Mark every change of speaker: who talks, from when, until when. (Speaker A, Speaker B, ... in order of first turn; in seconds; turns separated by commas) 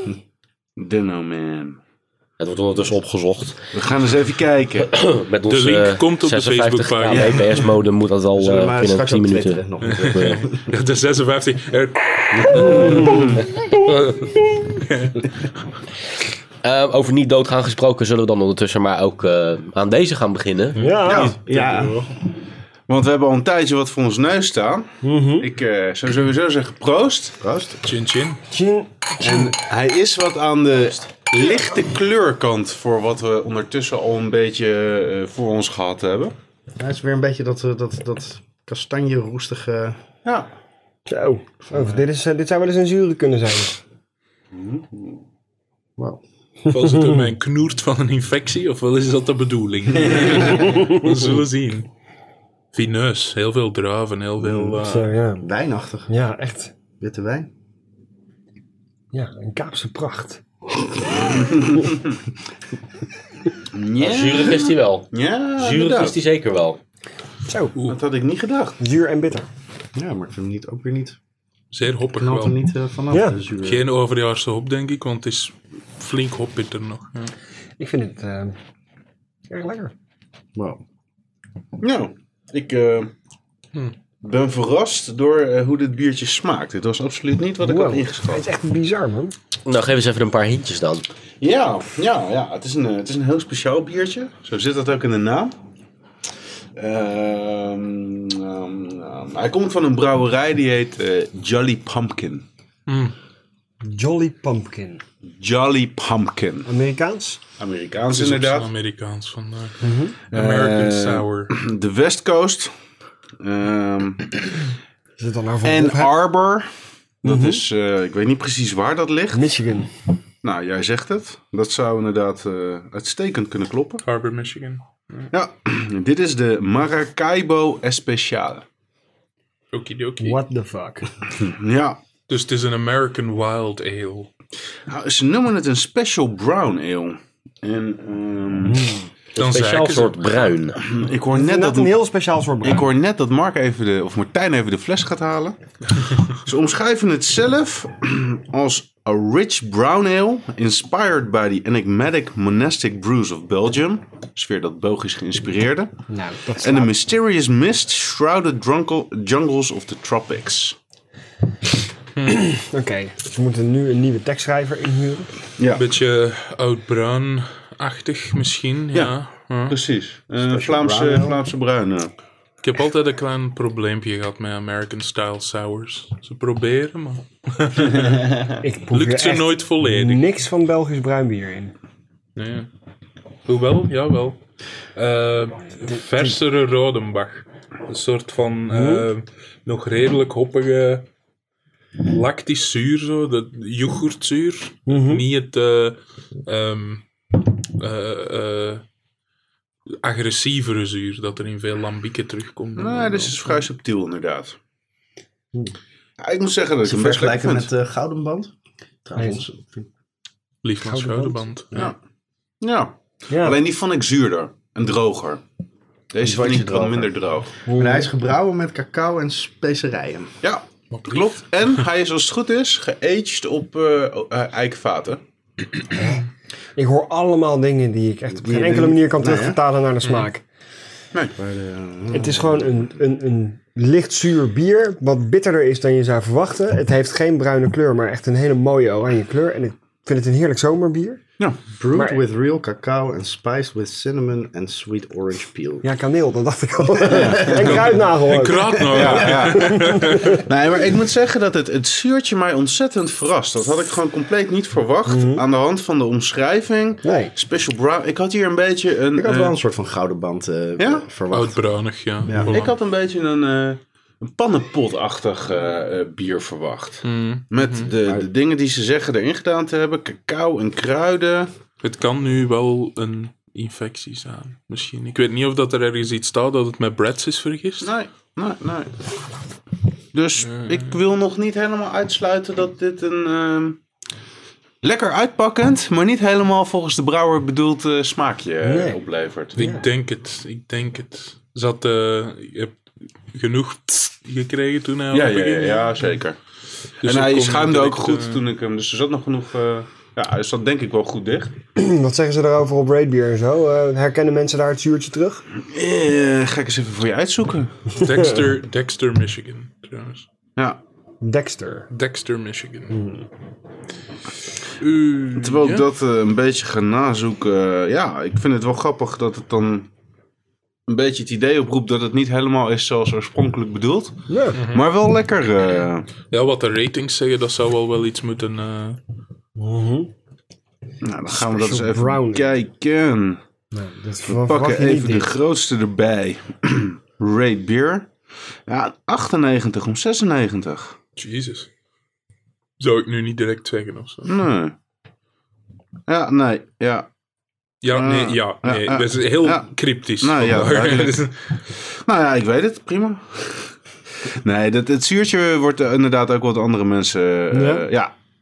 Speaker A: 0.8-1.8, Speaker B: 2.4-3.6, Speaker A: 3.7-4.9, Speaker B: 4.8-9.6, Speaker C: 5.5-7.7, Speaker A: 7.1-7.4, Speaker D: 8.4-10.6, Speaker C: 9.8-15.3, Speaker A: 12.5-13.4, Speaker E: 12.5-13.3, Speaker B: 16.6-20.8, Speaker C: 20.7-22.1, Speaker E: 20.8-21.4, Speaker A: 21.1-21.8, Speaker D: 21.1-22.0, Speaker A: 22.9-27.4, Speaker E: 25.0-25.5, Speaker D: 27.4-27.8, Speaker C: 27.8-28.4, Speaker E: 28.5-29.5, Speaker A: 29.2-36.3, Speaker D: 36.8-40.0, Speaker A: 40.2-40.5, Speaker E: 41.1-43.8, Speaker D: 41.7-42.0, Speaker A: 44.5-45.2, Speaker D: 46.0-46.2, Speaker E: 46.7-47.3, Speaker C: 46.7-51.9, Speaker A: 50.0-50.5, Speaker E: 50.6-50.9, Speaker C: 52.7-55.1, Speaker D: 54.4-54.8, Speaker E: 54.8-55.5, Speaker D: 55.4-56.1, Speaker E: 56.1-56.7, Speaker D: 57.0-57.5, Speaker E: 59.1-60.4, Speaker A: 61.7-62.0, Speaker A: 63.7-66.2, Speaker B: 64.0-66.8, Speaker E: 67.5-67.7, Speaker A: 67.9-68.8, Speaker E: 68.8-69.5, Speaker D: 69.9-71.2, Speaker C: 71.7-72.5, Speaker D: 72.2-73.8, Speaker C: 73.6-77.3, Speaker E: 77.8-78.5, Speaker E: 79.5-79.9, Speaker D: 80.5-80.8, Speaker A: 81.8-83.1, Speaker A: 84.2-88.5, Speaker E: 87.6-89.3, Speaker B: 89.6-91.0, Speaker A: 91.4-95.5, Speaker A: 96.8-102.4, Speaker C: 102.9-103.1, Speaker E: 103.8-105.0, Speaker A: 105.4-106.7, Speaker E: 106.7-107.4, Speaker A: 107.6-108.7, Speaker C: 108.1-109.8, Speaker E: 109.8-110.2, Speaker C: 110.3-111.5, Speaker A: 110.3-112.7, Speaker A: 113.4-114.4, Speaker E: 115.2-116.1, Speaker A: 115.6-116.7, Speaker A: 117.2-119.5, Speaker E: 117.2-117.6, Speaker E: 119.3-119.9, Speaker A: 120.4-124.0, Speaker C: 124.0-125.3, Speaker A: 125.3-128.7, Speaker C: 129.7-130.4, Speaker E: 130.2-131.1, Speaker A: 131.4-132.0, Speaker C: 132.3-134.3, Speaker A: 134.9-138.9, Speaker B: 139.3-140.8, Speaker C: 139.4-140.2, Speaker A: 140.8-141.9, Speaker E: 141.3-142.9, Speaker A: 142.6-145.6, Speaker A: 146.3-155.9, Speaker E: 156.1-156.9, Speaker A: 156.6-160.8, Speaker E: 162.3-165.3, Speaker A: 165.6-165.8, Speaker C: 165.7-169.8, Speaker A: 169.7-172.1, Speaker D: 170.4-171.4, Speaker C: 172.6-178.2, Speaker A: 177.9-178.6, Speaker E: 178.6-181.7, Speaker C: 178.9-180.2, Speaker C: 182.3-182.7, Speaker C: 183.4-184.4, Speaker C: 184.9-191.1, Speaker E: 185.9-186.3, Speaker E: 188.7-189.1, Speaker C: 192.0-198.8, Speaker E: 194.9-195.2, Speaker C: 200.0-203.6, Speaker A: 202.8-204.6, Speaker A: 206.2-207.7, Speaker D: 206.8-208.5, Speaker D: 209.0-209.6, Speaker E: 209.2-209.8, Speaker C: 210.6-211.7, Speaker E: 210.8-211.9, Speaker A: 212.6-215.4, Speaker E: 213.3-213.6, Speaker A: 216.1-217.5, Speaker D: 216.2-217.1, Speaker E: 217.7-218.1, Speaker D: 217.7-220.3, Speaker A: 220.4-225.2, Speaker C: 220.9-221.8, Speaker E: 225.9-226.2, Speaker E: 226.8-230.4, Speaker D: 228.3-229.6, Speaker C: 230.0-230.3, Speaker D: 231.4-232.8, Speaker E: 232.1-241.2, Speaker A: 241.4-241.7, Speaker D: 241.8-245.9, Speaker E: 241.9-242.2, Speaker E: 245.8-250.4, Speaker A: 247.1-247.9, Speaker D: 247.1-247.4, Speaker C: 247.6-250.4, Speaker A: 248.9-249.9, Speaker A: 250.4-259.5, Speaker E: 255.1-255.4, Speaker E: 257.0-257.3, Speaker D: 259.1-261.6, Speaker A: 260.8-261.0, Speaker C: 261.3-262.7, Speaker D: 262.2-262.5, Speaker A: 262.4-271.5, Speaker C: 267.0-267.9, Speaker C: 271.8-277.9, Speaker A: 277.8-279.0, Speaker A: 280.1-283.8, Speaker C: 280.4-280.9, Speaker A: 284.8-289.6, Speaker E: 288.6-289.0, Speaker C: 289.6-292.8, Speaker E: 289.6-289.9, Speaker C: 293.3-295.9, Speaker A: 295.1-296.4, Speaker C: 297.0-298.4, Speaker A: 297.0-301.5, Speaker E: 301.8-305.4, Speaker A: 305.6-307.7, Speaker C: 308.0-310.3, Speaker E: 311.2-311.9, Speaker C: 311.9-313.0, Speaker E: 312.9-313.2, Speaker C: 314.8-315.9, Speaker A: 315.4-319.9, Speaker A: 320.9-326.1, Speaker E: 324.3-324.6, Speaker C: 324.5-324.8, Speaker C: 326.3-329.0, Speaker E: 329.6-330.1, Speaker A: 331.0-333.4, Speaker E: 331.3-332.6, Speaker E: 333.7-335.3, Speaker A: 334.3-338.1, Speaker A: 338.7-340.9, Speaker C: 341.2-341.7, Speaker C: 342.8-344.3, Speaker A: 344.2-344.7, Speaker A: 346.1-347.1, Speaker C: 347.8-351.6, Speaker A: 347.9-349.7, Speaker A: 350.2-358.1, Speaker E: 357.5-357.8